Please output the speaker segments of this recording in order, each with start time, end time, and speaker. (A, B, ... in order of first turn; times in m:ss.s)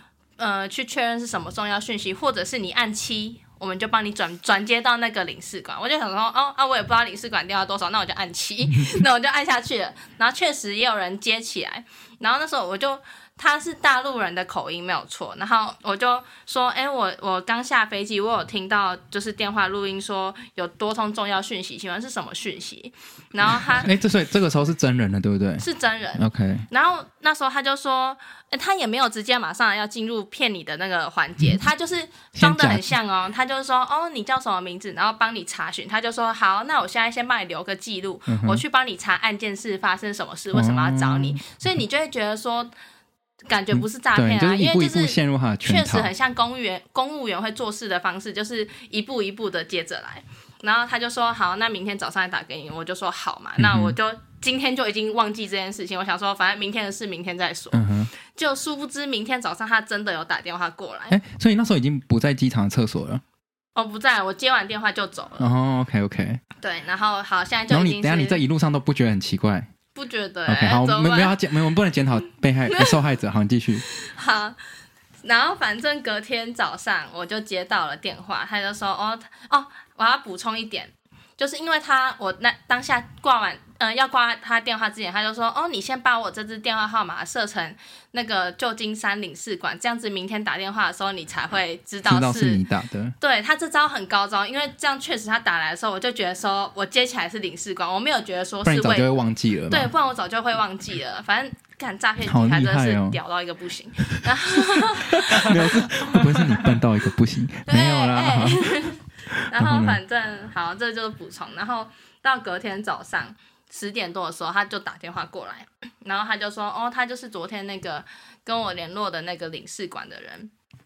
0:00.4-0:23.9 A
0:23.7-0:25.6 B
0:25.6-0:42.7 A
0:26.2-0:26.6 B
0:32.3-0:32.9 B
0:38.3-0:38.6 B
0:40.5-0:41.6 B
0:43.5-1:01.2 A
0:43.7-0:46.1 B
0:53.6-0:54.0 B
0:57.7-0:58.1 B
1:01.1-1:03.2 B
1:03.7-1:05.5 A
1:05.4-1:06.4 B
1:06.6-1:08.4 A
1:07.7-1:09.7 B
1:09.9-1:11.3 A
1:10.5-1:13.8 B
1:13.9-1:14.6 A
1:15.2-1:32.6 A
1:32.0-1:33.1 B
1:33.2-1:39.1 A
1:38.6-1:39.9 B
1:39.7-1:46.1 A
1:42.2-1:43.2 B
1:44.6-1:48.8 B
1:47.7-2:00.5 A
1:49.5-1:50.0 B